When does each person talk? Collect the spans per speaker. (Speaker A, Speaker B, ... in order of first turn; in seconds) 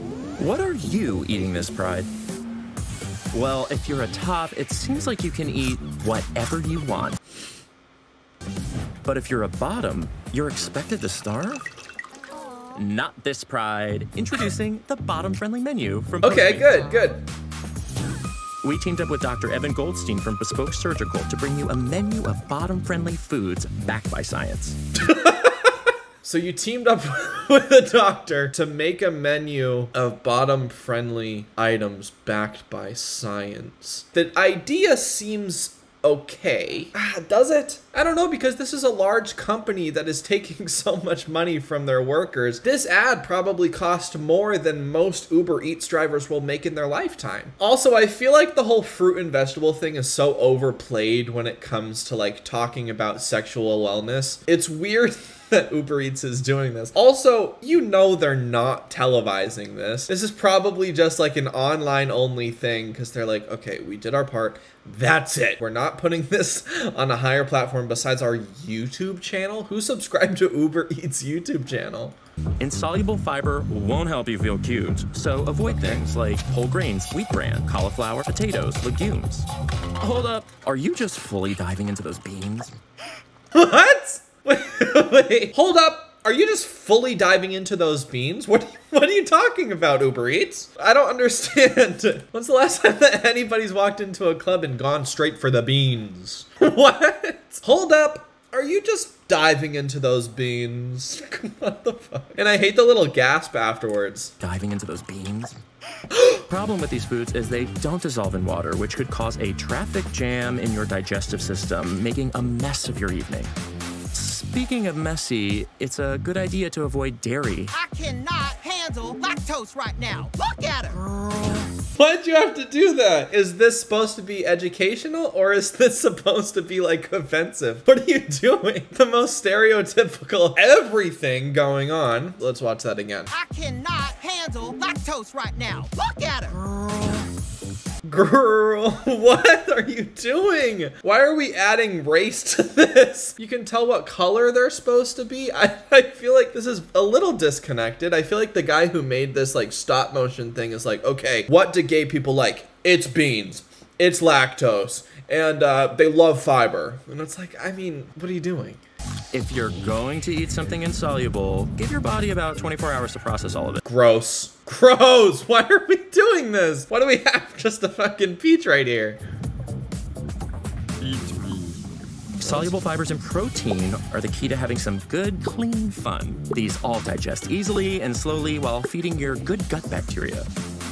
Speaker A: 0.4-2.1, 3.3-7.2, 9.0-11.7, 12.7-17.1, 18.6-24.8, 72.6-79.5, 80.0-82.7, 104.4-105.6, 106.4-113.5, 114.1-117.7, 159.3-163.8, 171.2-171.6, 172.4-180.5
Speaker B: 16.2-17.2, 24.9-72.2, 75.6-76.0, 83.5-104.3, 106.1-106.4, 121.0-133.3, 136.5-137.3, 138.0-158.8, 163.8-169.2
Speaker C: 117.7-121.0, 133.3-136.6